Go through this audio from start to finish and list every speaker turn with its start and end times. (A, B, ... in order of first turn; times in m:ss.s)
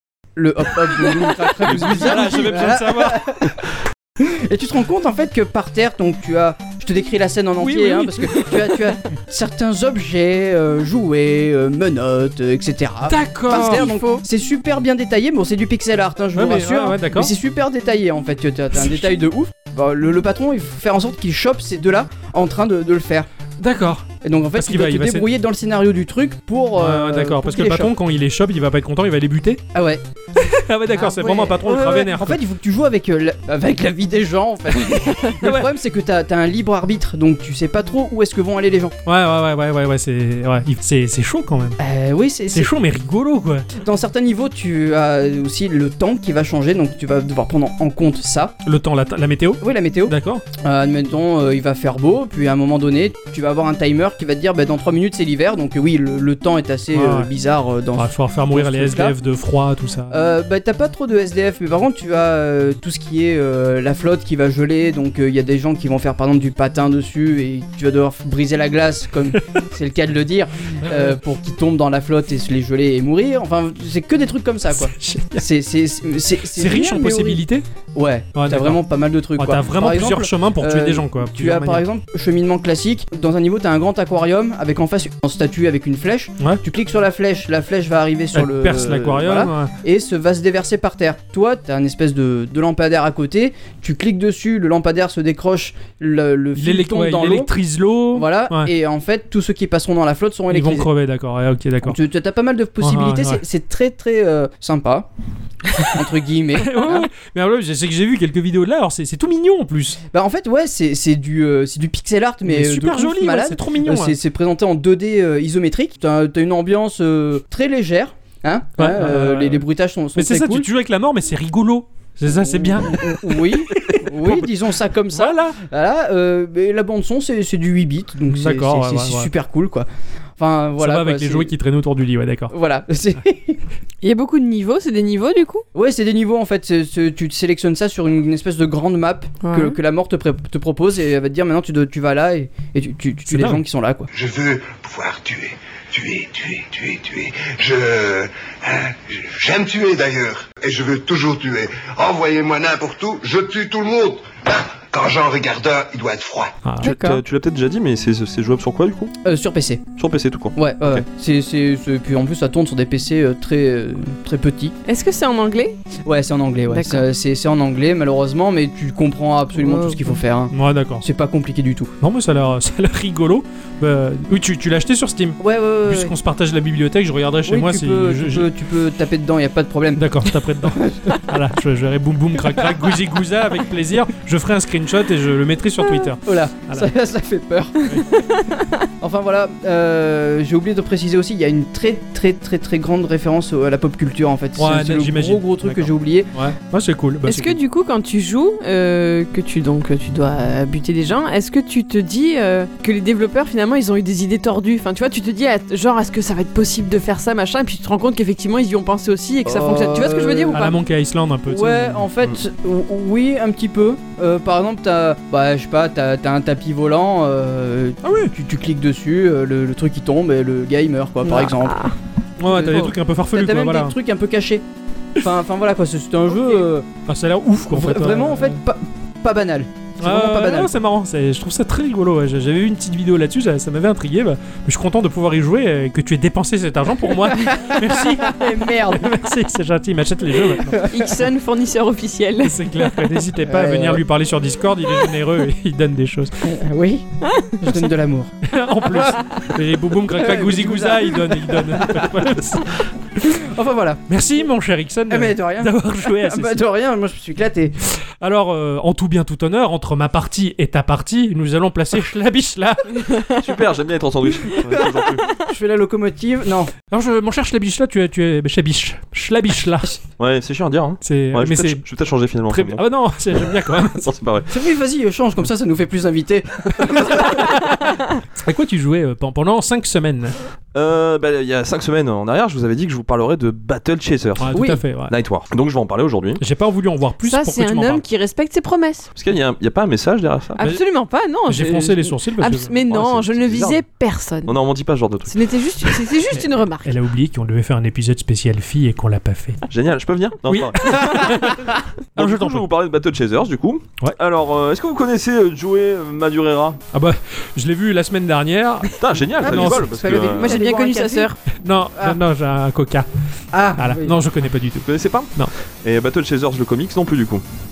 0:00.4-0:23.3 A
0:01.6-0:03.4 B
0:07.6-0:08.9 B
0:13.1-0:14.2 B
0:13.5-0:14.1 C
0:16.3-0:17.3 B
0:18.8-0:19.2 B
0:23.6-0:25.2 B
0:24.2-0:27.9 A
0:26.8-0:29.6 B
0:29.7-0:30.0 A
0:30.4-0:32.4 B
0:31.0-0:39.0 A
0:35.4-0:35.7 B
0:39.0-0:41.8 B
0:41.8-0:42.7 A
0:42.5-0:43.7 B
0:43.7-0:48.5 A
0:48.6-0:50.4 B
0:49.6-0:59.1 A
0:56.9-0:57.3 B
0:57.9-1:00.2 B
1:00.1-1:17.4 A
1:10.8-1:11.2 B
1:14.7-1:15.4 B
1:16.5-1:17.6 B
1:17.9-1:37.5 A
1:18.3-1:18.8 B
1:19.4-1:21.8 B
1:28.3-1:29.7 B
1:36.6-1:38.7 B
1:38.1-1:40.9 A
1:40.5-1:42.0 B
1:41.8-1:45.1 A
1:42.8-1:43.4 B
1:45.7-1:46.0 B
1:45.8-1:47.1 A
1:46.6-1:50.0 B
1:50.1-2:00.7 A
1:52.4-1:54.2 B
1:58.8-2:04.5 B
2:02.3-2:11.5 A
2:05.1-2:05.6 B
2:08.3-2:09.3 B
2:10.8-2:12.5 B
2:12.5-2:13.6 A
2:14.0-2:15.6 C
2:15.7-2:24.1 A
2:19.4-2:19.8 C
2:23.3-2:23.6 B
2:24.1-2:36.5 D
2:36.6-2:36.9 B
2:36.8-2:37.2 C
2:36.8-2:39.1 E
2:39.2-2:39.8 A
2:40.0-2:41.0 E
2:40.6-2:44.7 A
2:44.8-2:45.8 C
2:46.0-2:51.9 A
2:46.7-2:47.0 C
2:49.6-2:50.2 C
2:50.5-2:51.0 B
2:52.0-2:58.5 B
2:55.4-2:56.1 A
2:57.4-3:00.1 A
3:00.0-3:06.9 B
3:00.6-3:01.2 A
3:06.2-3:08.0 A
3:09.0-3:16.3 A
3:14.6-3:17.6 B
3:17.2-3:30.7 C
3:29.4-3:30.7 A
3:30.5-3:32.0 B
3:31.5-3:41.9 A
3:38.0-3:38.3 B
3:41.2-3:41.9 C
3:42.4-3:43.9 B
3:42.5-3:44.6 A
3:45.2-3:46.9 A
3:47.1-3:48.6 B
3:47.7-3:50.7 A
3:50.0-4:00.8 B
3:57.4-3:59.1 A
4:00.5-4:01.1 A
4:00.8-4:02.9 C
4:02.4-4:06.4 B
4:03.4-4:04.0 A
4:06.4-4:07.0 A
4:07.2-4:07.5 C
4:07.6-4:08.3 A
4:08.4-4:13.4 B
4:08.9-4:09.4 A
4:10.1-4:12.2 A
4:13.2-4:14.0 A
4:14.1-4:16.6 B
4:15.1-4:17.8 A
4:18.2-4:23.3 B
4:23.3-4:25.3 E
4:24.6-4:26.7 A
4:26.9-4:30.0 B
4:30.2-4:32.8 E
4:31.0-4:31.8 B
4:32.5-4:34.0 B
4:33.9-4:34.5 E
4:34.5-4:37.7 A
4:37.1-4:40.4 B
4:40.7-4:46.4 E
4:44.4-4:45.1 B
4:44.5-4:44.8 A
4:46.4-4:48.0 B
4:47.2-4:49.1 C
4:49.2-4:50.6 E
4:50.5-4:54.6 C
4:51.5-4:53.3 B
4:52.9-4:53.8 E
4:54.4-4:55.4 E
4:55.3-4:56.9 C
4:56.3-4:59.6 B
4:59.7-5:01.6 E
5:00.5-5:02.7 B
5:02.1-5:06.8 E
5:06.9-5:09.9 B
5:09.0-5:10.6 E
5:09.4-5:11.3 A
5:10.3-5:11.4 C
5:11.5-5:13.1 B
5:13.5-5:14.2 A
5:13.7-5:15.5 B
5:14.8-5:17.4 E